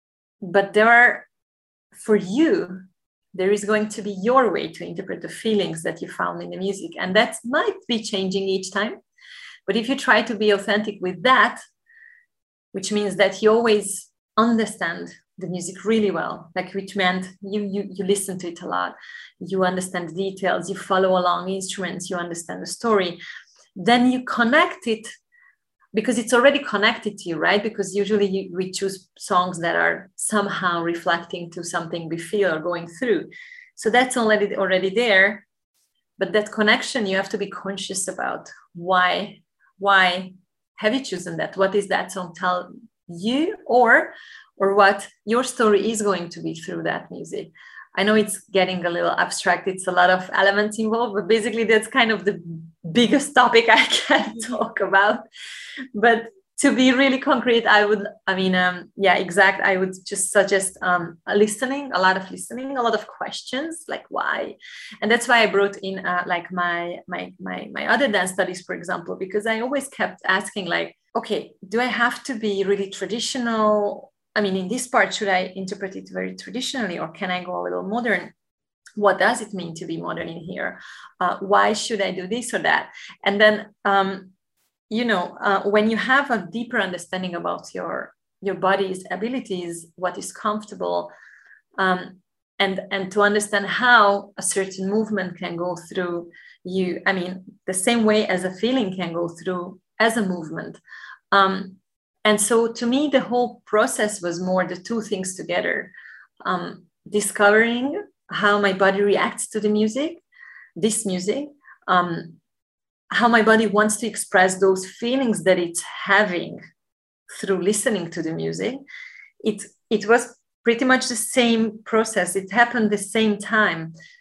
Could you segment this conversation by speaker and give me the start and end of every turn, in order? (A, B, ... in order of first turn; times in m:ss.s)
0:00.4-0:01.3 A
0:01.9-0:02.8 A
0:03.3-0:09.0 A
0:09.6-0:11.6 A
0:12.7-0:23.2 A
0:23.8-0:25.1 A
0:25.9-0:35.4 A
0:36.2-0:55.2 A
0:55.9-1:18.3 A
1:19.0-1:24.3 A
1:24.9-1:31.1 A
1:31.8-1:40.8 A
1:41.3-1:45.9 A
1:46.4-1:50.2 A
1:50.8-1:52.4 A
1:53.1-1:56.6 A
1:57.3-1:58.8 A
1:59.4-2:03.9 A